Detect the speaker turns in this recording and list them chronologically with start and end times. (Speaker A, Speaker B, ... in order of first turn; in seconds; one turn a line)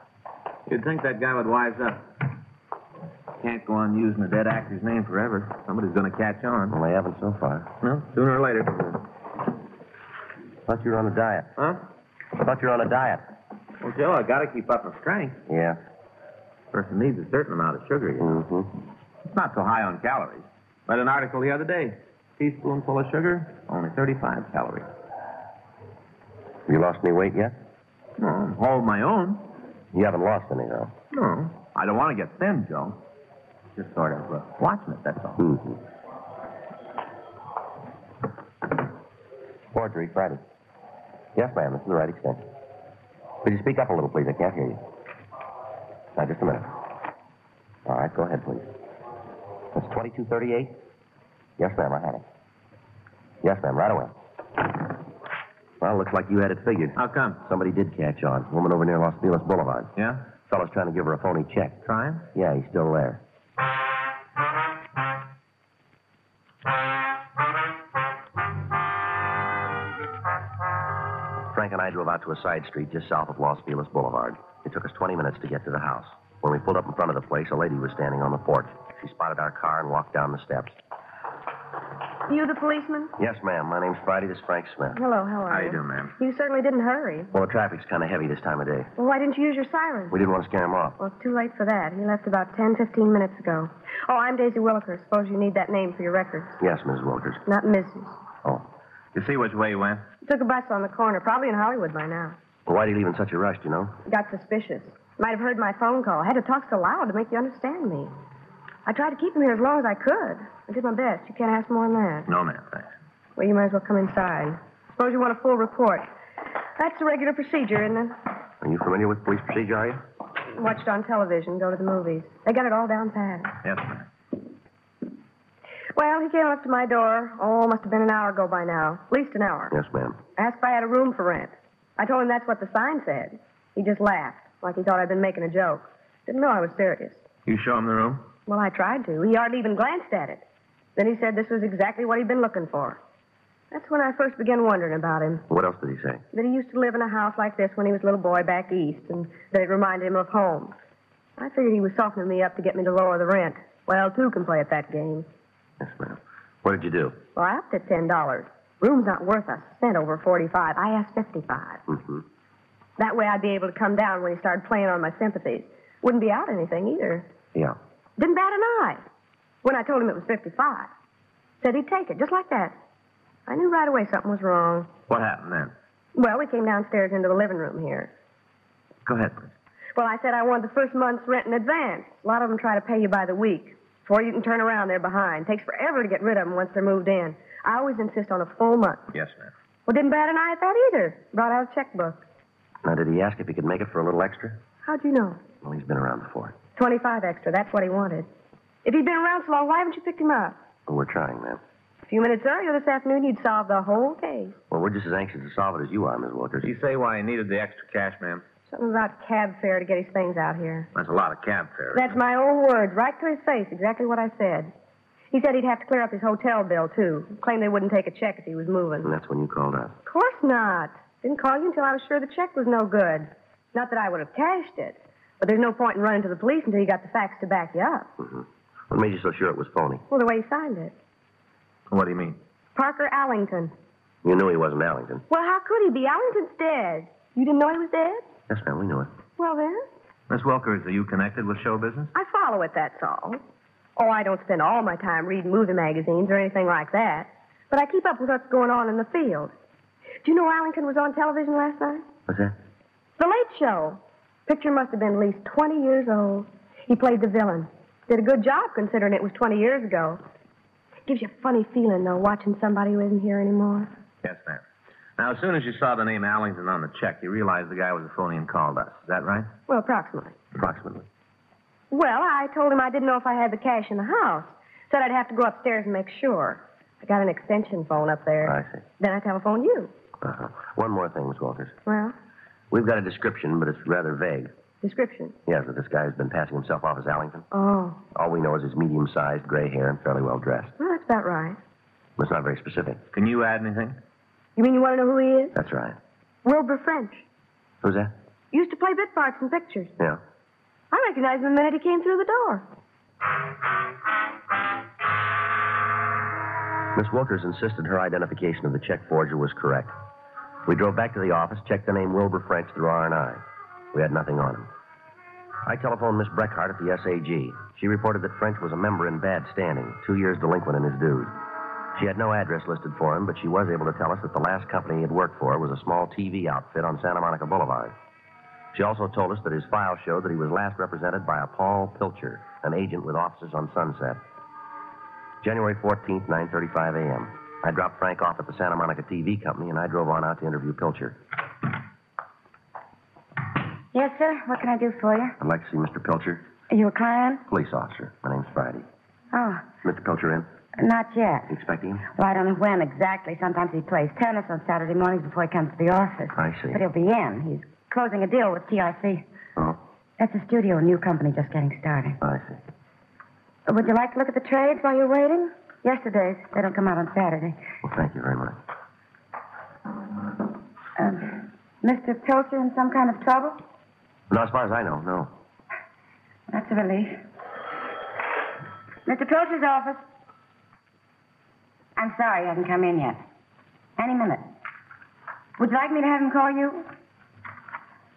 Speaker A: 0.7-2.1
Speaker A: 3.4-6.8
Speaker B: 6.7-7.7
Speaker A: 7.8-9.0
Speaker B: 10.7-11.5
Speaker B: 12.4-13.3
Speaker A: 13.8-15.4
Speaker B: 15.5-15.8
Speaker A: 16.7-18.4
Speaker B: 18.2-18.7
Speaker A: 19.3-24.9
Speaker B: 26.7-27.6
Speaker A: 28.2-29.5
Speaker B: 29.9-30.9
Speaker A: 31.1-33.0
Speaker A: 33.8-35.4
Speaker B: 35.4-35.8
Speaker B: 39.7-40.4
Speaker B: 41.4-42.4
Speaker B: 43.4-44.8
Speaker B: 46.2-46.7
Speaker B: 47.9-48.7
Speaker B: 49.7-50.8
Speaker B: 51.6-52.2
Speaker B: 53.4-54.1
Speaker B: 55.8-59.9
Speaker A: 57.0-57.4
Speaker A: 60.0-60.2
Speaker B: 60.5-61.8
Speaker A: 61.9-62.3
Speaker B: 62.3-63.2
Speaker B: 71.5-80.8
Speaker C: 82.3-83.1
Speaker B: 83.2-85.0
Speaker C: 84.9-87.3
Speaker A: 85.5-86.2
Speaker B: 87.3-88.9
Speaker C: 89.0-90.2
Speaker B: 90.1-91.0
Speaker C: 91.0-96.6
Speaker B: 96.6-97.4
Speaker C: 97.5-98.2
Speaker A: 99.1-100.1
Speaker C: 100.2-102.4
Speaker B: 102.7-104.0
Speaker C: 104.1-108.1
Speaker C: 108.9-112.3
Speaker A: 112.3-112.9
Speaker C: 113.4-116.1
Speaker C: 116.8-118.2
Speaker B: 118.6-120.0
Speaker C: 120.5-123.5
Speaker A: 123.6-124.0
Speaker C: 126.0-129.8
Speaker B: 129.7-130.2
Speaker C: 130.4-137.2
Speaker A: 137.5-138.3
Speaker C: 138.5-140.4
Speaker C: 141.0-143.0
Speaker C: 143.7-145.4
Speaker B: 145.5-146.2
Speaker C: 146.3-150.8
Speaker C: 151.4-155.3
Speaker B: 155.8-157.2
Speaker C: 157.3-161.8
Speaker B: 161.9-162.2
Speaker C: 163.0-167.3
Speaker C: 168.2-169.0
Speaker C: 169.6-170.9
Speaker C: 171.6-172.8
Speaker C: 173.5-174.9
Speaker A: 175.1-175.7
Speaker C: 176.2-178.1
Speaker A: 179.1-179.5
Speaker C: 179.9-189.1
Speaker A: 189.1-189.5
Speaker C: 189.9-192.2
Speaker B: 192.8-194.6
Speaker C: 194.8-195.4
Speaker B: 195.6-196.6
Speaker C: 196.8-198.3
Speaker C: 198.8-200.6
Speaker B: 200.9-201.6
Speaker C: 202.1-204.6
Speaker B: 204.7-206.7
Speaker A: 206.6-208.4
Speaker C: 208.7-210.9
Speaker A: 210.9-212.1
Speaker C: 211.9-214.7
Speaker C: 215.3-219.1
Speaker B: 219.0-220.0
Speaker C: 220.1-228.1
Speaker B: 228.2-230.0
Speaker C: 230.1-230.9
Speaker A: 231.9-232.4
Speaker C: 232.8-233.7
Speaker B: 234.2-235.2
Speaker C: 235.3-238.2
Speaker B: 238.5-239.1
Speaker C: 239.4-239.9
Speaker A: 240.3-242.1
Speaker C: 242.2-243.4
Speaker C: 244.0-249.5
Speaker C: 250.2-252.1
Speaker B: 252.3-252.6
Speaker C: 253.2-260.2
Speaker C: 261.1-263.9
Speaker A: 264.2-264.6
Speaker A: 265.2-269.5
Speaker C: 269.7-270.4
Speaker B: 270.6-271.1
Speaker C: 271.9-279.9
Speaker B: 278.4-278.8
Speaker B: 280.2-281.8
Speaker C: 281.9-282.1
Speaker B: 282.7-284.5
Speaker C: 284.8-285.4
Speaker B: 285.5-287.5
Speaker C: 287.5-288.0
Speaker B: 288.1-290.7
Speaker C: 290.8-291.6
Speaker B: 292.2-293.0
Speaker A: 293.1-294.0
Speaker C: 294.6-295.6
Speaker B: 295.6-296.0
Speaker C: 296.4-297.2
Speaker B: 297.8-298.1
Speaker C: 298.5-299.9
Speaker C: 300.9-302.6
Speaker B: 306.9-309.9
Speaker B: 310.7-313.4
Speaker B: 313.9-314.7
Speaker B: 315.6-321.4
Speaker B: 321.9-327.9
Speaker B: 328.7-334.2
Speaker B: 335.4-341.2
Speaker D: 343.9-345.4
Speaker B: 345.4-346.4
Speaker D: 346.7-347.4
Speaker B: 347.5-348.9
Speaker D: 349.3-349.7
Speaker B: 349.8-350.5
Speaker D: 350.8-351.5
Speaker B: 351.5-352.0
Speaker D: 352.1-359.2
Speaker B: 356.4-356.8
Speaker D: 360.2-362.2
Speaker B: 362.2-362.6
Speaker D: 363.7-367.6
Speaker B: 367.8-368.6
Speaker D: 371.0-373.6
Speaker B: 374.3-375.3
Speaker D: 376.5-377.2
Speaker D: 379.1-380.0
Speaker D: 382.0-383.2
Speaker D: 384.0-384.5
Speaker D: 385.6-386.9